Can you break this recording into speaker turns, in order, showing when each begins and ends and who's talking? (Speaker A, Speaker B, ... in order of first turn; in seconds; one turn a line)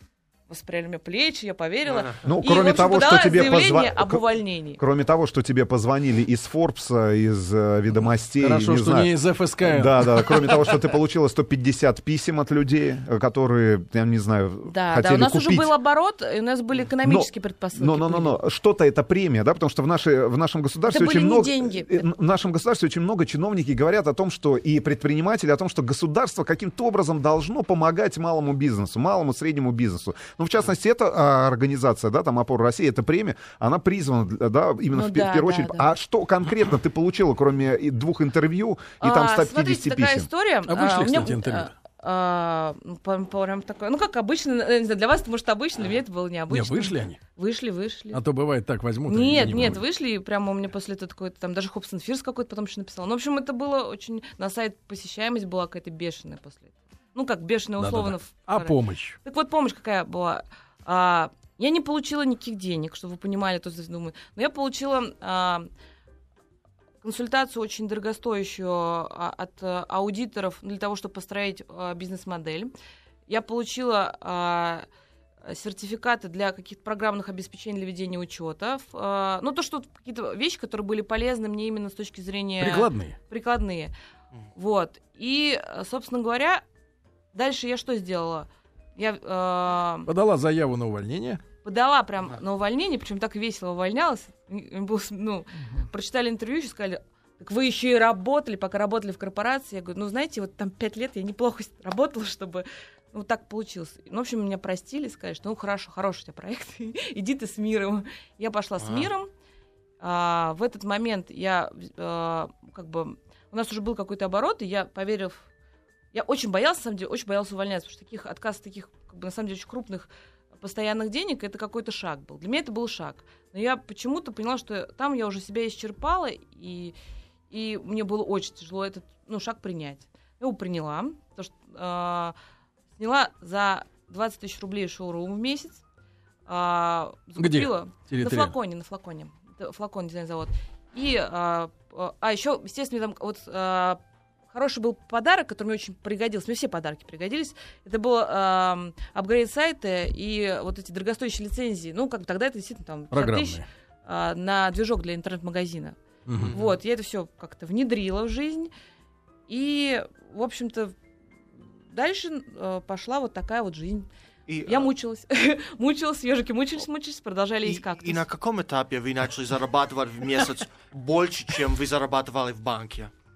Speaker A: 0.5-4.8
Speaker B: 1.9-2.2
Speaker C: 2.2-4.2
Speaker C: 4.8-9.1
Speaker D: 8.4-10.3
Speaker C: 9.6-15.7
Speaker A: 14.7-18.4
Speaker C: 17.0-40.3
Speaker A: 20.9-22.1
Speaker A: 34.9-35.9
Speaker A: 39.0-48.2
Speaker D: 40.7-41.7
Speaker D: 46.5-47.2
Speaker D: 48.1-49.8
Speaker A: 49.1-65.7
Speaker D: 57.8-59.2
Speaker A: 67.0-72.7
Speaker A: 73.3-74.9
Speaker A: 75.4-83.9
Speaker D: 82.6-83.2
Speaker A: 84.5-86.6
Speaker A: 87.3-90.1
Speaker D: 90.1-91.4
Speaker A: 91.6-109.3
Speaker B: 108.8-109.1
Speaker A: 110.0-115.4
Speaker A: 116.1-126.9
Speaker A: 127.5-132.3
Speaker A: 133.0-135.8
Speaker A: 136.5-144.0
Speaker D: 137.4-138.5
Speaker A: 144.5-156.0
Speaker D: 153.1-153.6
Speaker D: 156.2-156.6
Speaker B: 156.4-156.7
Speaker A: 156.5-158.7
Speaker A: 159.5-160.9
Speaker A: 161.9-164.1
Speaker B: 164.5-164.9
Speaker A: 164.6-168.2
Speaker B: 167.6-173.1